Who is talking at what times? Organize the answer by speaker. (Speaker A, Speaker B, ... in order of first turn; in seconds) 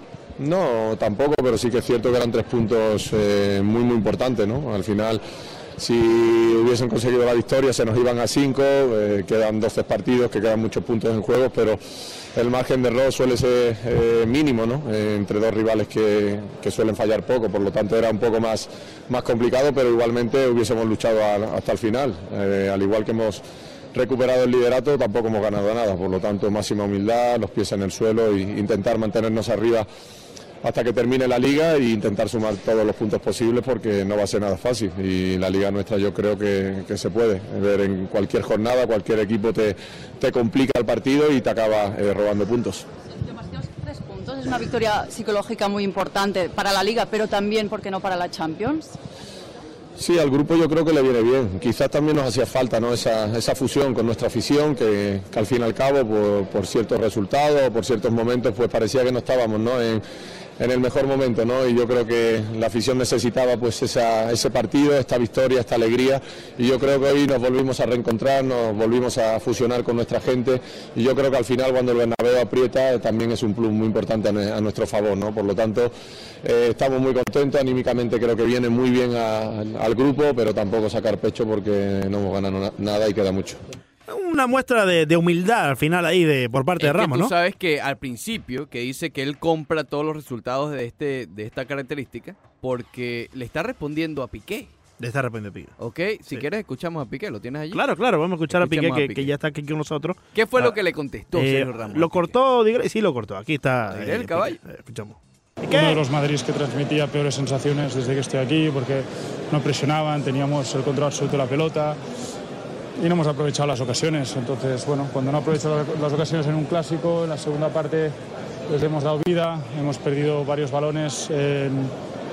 Speaker A: 0.4-5.2, 5.8-11.8, 12.3-23.4, 23.9-29.9, 30.6-42.8, 50.0-60.0, 60.6-83.6
Speaker B: 43.1-49.0
Speaker C: 84.1-87.3, 95.0-95.7, 97.7-100.8, 101.3-106.0
Speaker D: 86.8-94.7, 95.8-97.8, 98.5-99.3, 100.3-102.3, 103.9-104.6
Speaker E: 105.7-112.0, 113.0-118.1, 118.7-121.9